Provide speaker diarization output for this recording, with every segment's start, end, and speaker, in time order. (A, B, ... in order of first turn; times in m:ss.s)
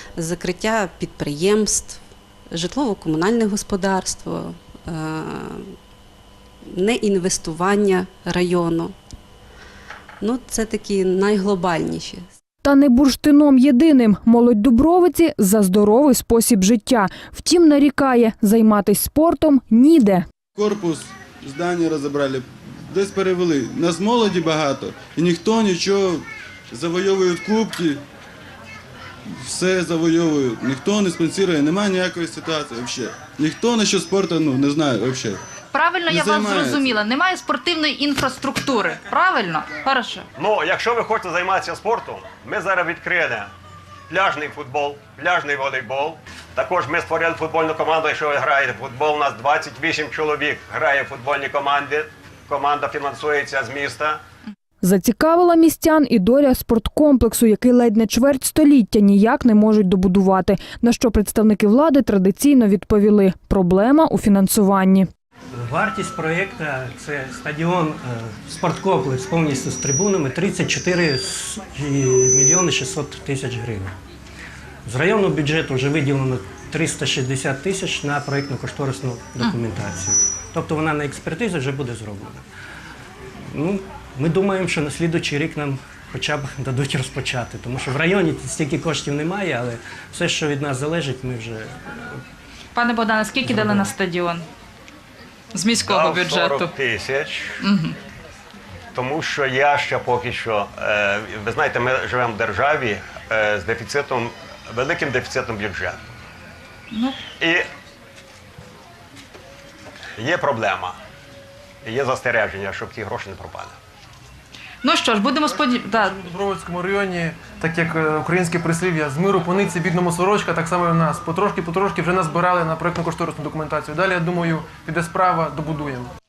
0:00.2-0:05.7 A
0:06.7-0:09.0 A
0:10.2-0:12.3 A
0:12.6-0:20.2 B
0:20.6-0:28.0 C
0:29.3-0:35.4 C
0:35.7-0:40.3 D
0:36.1-0:37.0 C
0:40.4-0:43.5 E
0:44.1-0:54.2 E
0:54.8-1:05.1 B
1:05.6-1:14.0 F
1:14.9-1:22.4 F
1:23.4-1:32.2 F
1:32.8-1:34.5 D
1:33.4-1:33.9 F
1:35.5-1:36.7 D
1:35.8-1:37.6 E
1:37.6-1:38.0 D
1:38.9-1:46.0 E
1:46.9-1:47.2 D
1:47.4-1:47.7 E
1:50.2-1:51.0 E
1:51.8-1:53.8 E
1:54.8-1:56.2 D
1:56.1-2:06.1 G